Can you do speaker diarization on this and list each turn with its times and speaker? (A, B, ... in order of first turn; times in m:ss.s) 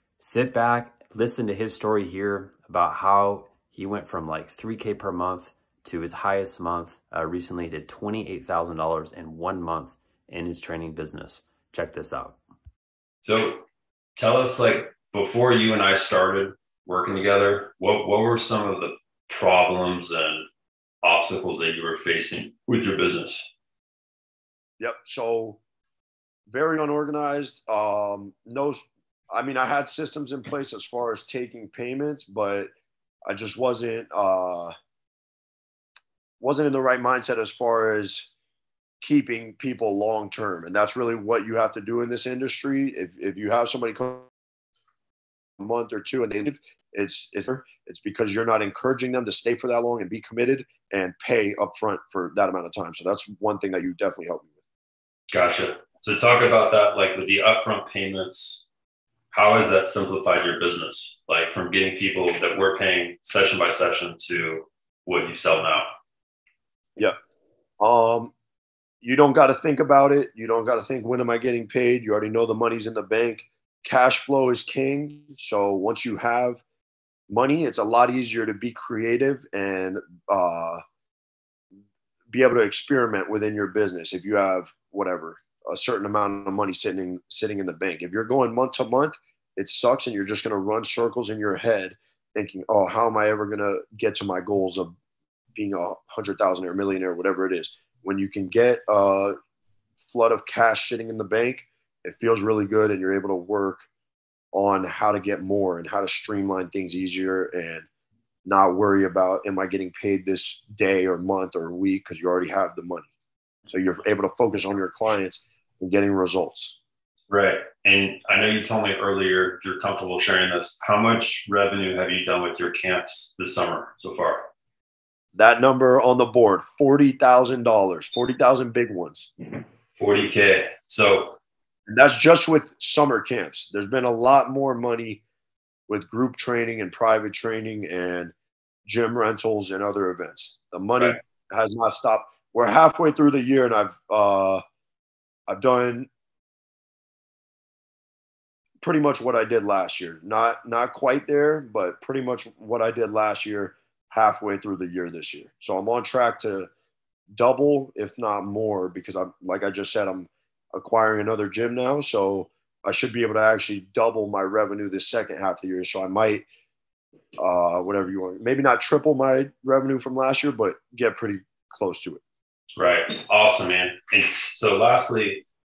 0:00.2-0:12.4 A
0:13.2-0:13.6 B
0:14.2-0:20.5 B
0:21.0-0:23.4 B
0:24.8-0:25.6 C
0:26.5-0:32.7 C
0:33.2-0:34.7 C
0:36.4-0:38.3 C
0:39.0-0:44.3 C
0:45.6-0:54.5 C
0:55.3-0:58.6 B
0:59.3-1:05.8 B
1:07.8-1:08.3 C
1:09.0-1:16.6 C
1:17.3-1:20.8 C
1:22.3-1:34.9 C
1:35.5-1:39.3 C
1:40.1-1:43.8 C
1:44.5-1:47.9 C
1:48.4-1:53.1 C
1:53.7-1:56.8 C
1:57.3-2:04.4 B
2:05.3-2:09.3 C
2:10.0-2:11.4 B
2:11.9-2:15.2 C
2:15.9-2:18.3 C
2:18.8-2:24.6 C
2:25.5-2:26.1 C
2:28.8-2:36.7 C
2:37.3-2:46.4 C
2:47.4-2:52.2 C
2:52.8-2:55.4 B